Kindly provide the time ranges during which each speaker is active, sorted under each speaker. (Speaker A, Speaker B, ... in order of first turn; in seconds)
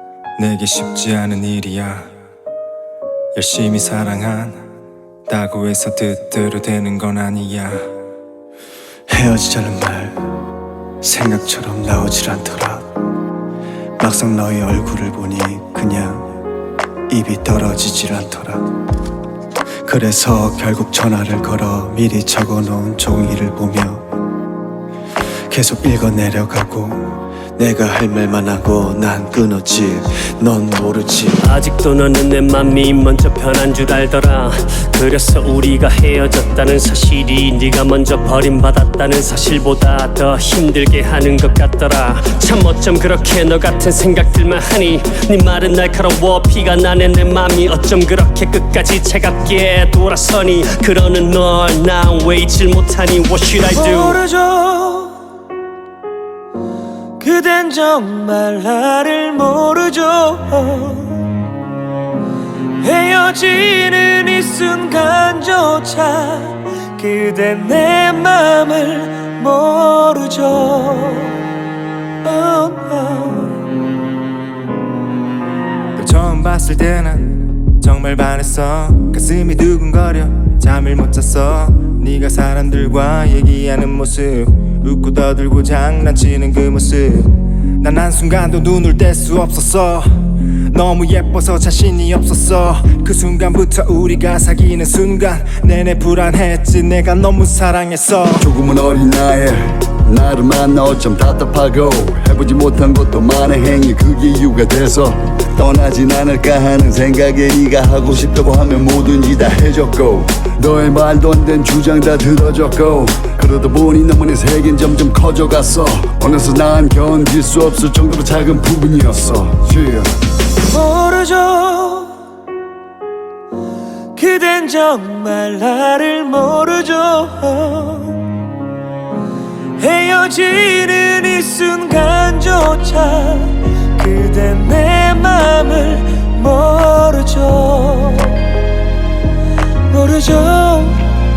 Speaker A: 0.4-2.1, 3.3-4.6, 5.3-7.9, 76.0-90.1, 90.7-98.4
Speaker B: 9.1-10.3, 11.0-12.9, 14.0-16.3, 17.1-18.7, 19.8-24.1, 25.5-31.4
Speaker C: 31.4-54.2
Speaker D: 53.7-55.2, 57.2-61.3, 62.8-71.4, 72.2-73.6, 120.6-122.2, 124.1-128.3, 129.8-138.4, 139.9-141.0
Speaker E: 98.4-120.1